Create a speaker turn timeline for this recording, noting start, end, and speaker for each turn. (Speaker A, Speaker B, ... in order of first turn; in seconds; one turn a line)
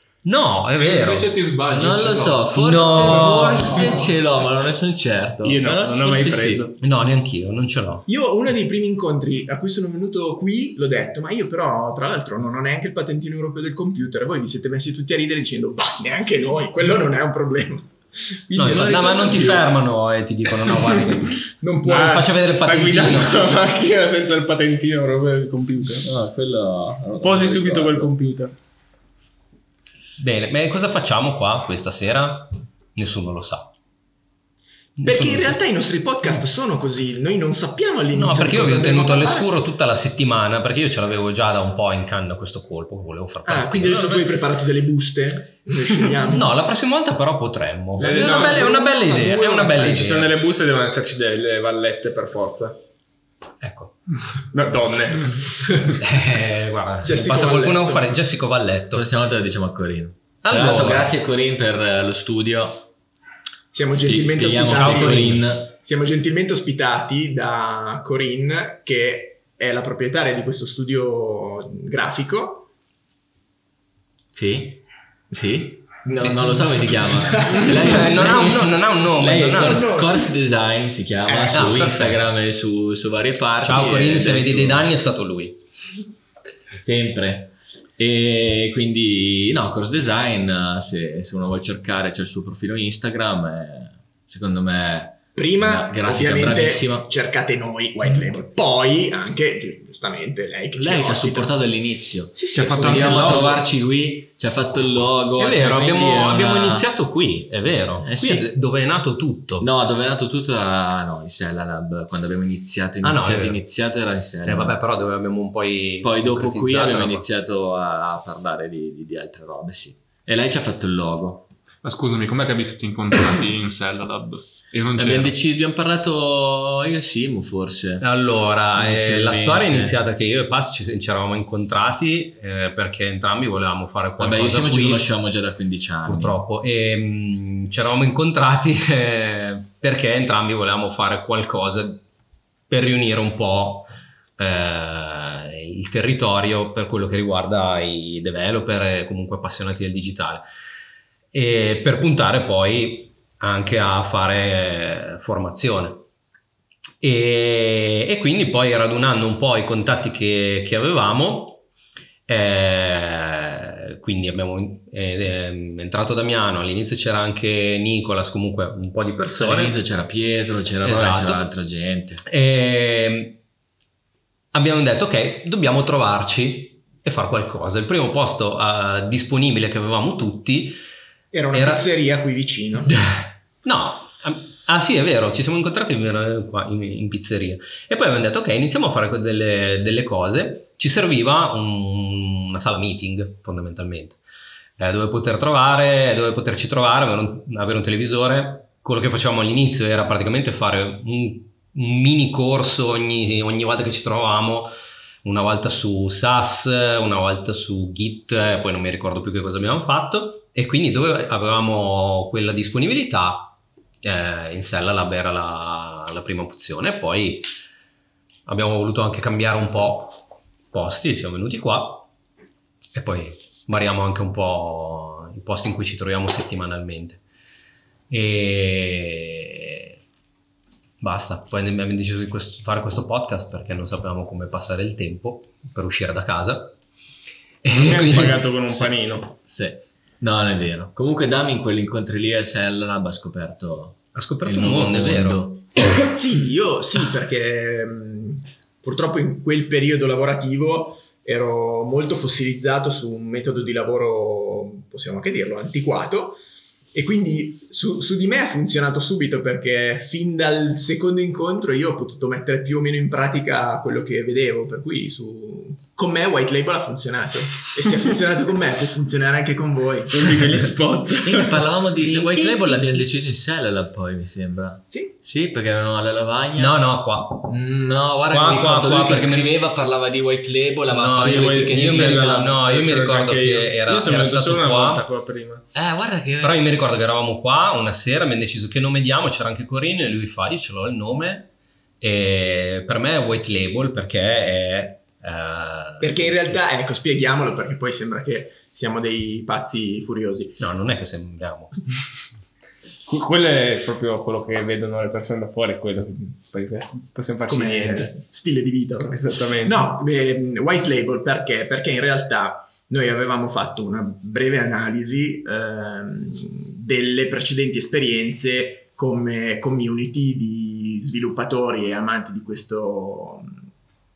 Speaker A: 0.2-1.3
Speaker B: 0.8-3.4
Speaker C: 1.7-6.7
Speaker A: 2.6-4.0
Speaker D: 5.4-6.8
Speaker A: 6.8-8.1
Speaker E: 8.1-19.6
Speaker A: 18.6-23.5
Speaker C: 18.6-19.6
Speaker E: 21.6-22.3
Speaker D: 21.9-26.1
Speaker C: 26.0-28.1
Speaker D: 27.2-28.6
Speaker A: 30.2-33.7
Speaker A: 35.0-35.6
Speaker E: 35.0-39.5
Speaker A: 38.1-44.3
Speaker E: 43.5-46.5
Speaker A: 46.3-50.3
Speaker D: 48.0-48.8
Speaker E: 48.0-50.1
Speaker D: 49.7-52.8
Speaker A: 53.6-53.9
Speaker D: 54.5-56.0
Speaker A: 56.0-59.1
Speaker E: 57.0-58.1
Speaker C: 58.9-62.9
Speaker A: 60.4-61.1
Speaker E: 63.7-72.7
Speaker C: 64.0-65.7
Speaker A: 64.7-65.4
Speaker C: 74.3-84.9
Speaker E: 77.3-78.1
Speaker A: 77.5-79.9
Speaker E: 79.5-80.3
Speaker E: 81.3-82.0
Speaker A: 81.5-82.2
Speaker A: 83.6-85.6
Speaker C: 86.8-97.1
Speaker E: 95.4-101.5
Speaker C: 100.7-106.9
Speaker E: 102.3-103.6
Speaker B: 102.5-103.6
Speaker A: 105.4-109.7
Speaker C: 108.0-108.5
Speaker C: 109.6-114.8
Speaker A: 113.0-113.6
Speaker A: 114.5-117.3
Speaker C: 116.0-121.5
Speaker B: 121.8-125.3
Speaker C: 125.0-128.1
Speaker A: 128.0-135.1
Speaker C: 128.8-130.0
Speaker C: 134.2-136.4
Speaker A: 136.1-142.0
Speaker A: 142.7-150.5
Speaker A: 151.3-156.1
Speaker A: 157.0-161.6
Speaker A: 162.3-169.8
Speaker C: 169.4-172.2
Speaker A: 170.8-171.5
Speaker A: 172.2-173.4
Speaker A: 174.5-180.8
Speaker E: 181.3-183.0
Speaker A: 181.5-181.9
Speaker A: 183.0-194.2
Speaker A: 194.8-217.5
Speaker A: 218.5-222.1
Speaker A: 222.9-227.2
Speaker A: 228.1-229.9
Speaker A: 231.0-236.8
Speaker A: 237.6-238.5
Speaker D: 237.7-239.3
Speaker C: 239.4-245.7
Speaker A: 244.1-245.5
Speaker E: 246.0-256.4
Speaker E: 256.9-271.1
Speaker D: 270.1-271.6
Speaker C: 271.2-276.8
Speaker E: 272.3-272.8
Speaker A: 276.6-277.5
Speaker C: 277.5-282.5
Speaker A: 278.3-279.5
Speaker A: 280.9-285.1
Speaker D: 281.1-285.6
Speaker C: 285.7-286.6
Speaker A: 286.4-291.5
Speaker A: 292.0-296.6
Speaker E: 296.0-300.6
Speaker A: 300.6-301.8
Speaker D: 303.1-308.1
Speaker E: 307.5-323.5
Speaker D: 309.1-309.9